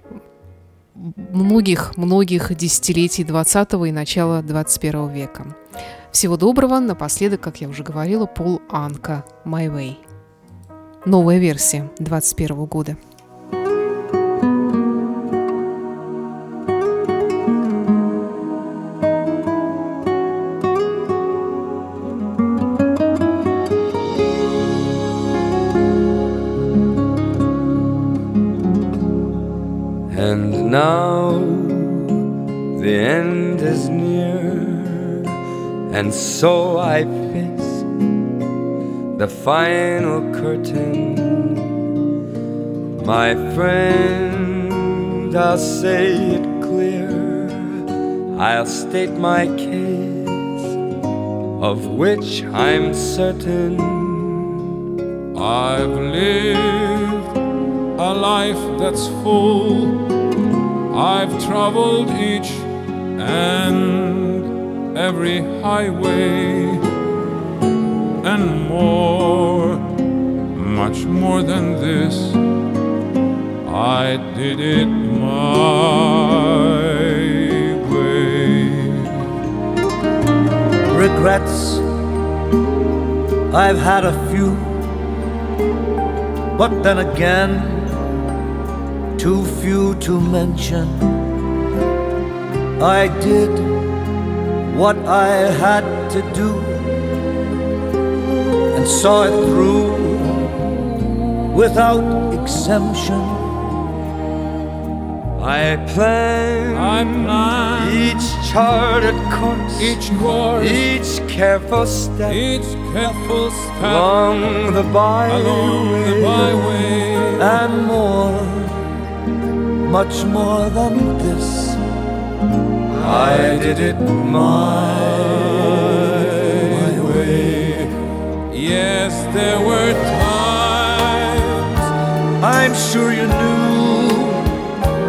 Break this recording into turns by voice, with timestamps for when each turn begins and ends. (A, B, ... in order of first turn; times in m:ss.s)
0:01.0-0:05.6 A
0:06.1-0:10.0 A
0:11.0-0:13.0 A
0:30.1-0:32.1 B
0:32.7-0:35.2 B
0:35.9-0:37.9 B
0:39.1-0:41.6 B
0:43.0-0:47.8 B
0:48.3-0:50.6 B
0:51.6-0:54.5 B
0:55.3-0:57.3 C
0:58.0-1:00.0 C
1:00.9-1:06.8 C
1:08.2-1:09.8 C
1:10.5-1:12.4 C
1:13.6-1:19.3 C
1:20.9-1:21.8 D
1:23.5-1:24.8 D
1:26.6-1:27.9 D
1:29.2-1:31.0 D
1:32.8-1:33.8 D
1:34.6-1:36.8 D
1:38.7-1:40.5 D
1:41.5-1:43.4 D
1:45.4-1:50.0 B
1:46.7-1:48.1 C
1:49.8-1:50.9 C
1:50.6-1:52.4 B
1:52.3-1:54.2 C
1:53.8-1:56.5 B
1:55.3-1:57.6 C
1:57.4-1:58.7 D
1:59.8-2:01.8 D
2:03.0-2:07.5 B
2:06.8-2:07.9 C
2:06.8-2:07.1 D
2:08.5-2:11.9 C
2:12.4-2:14.5 D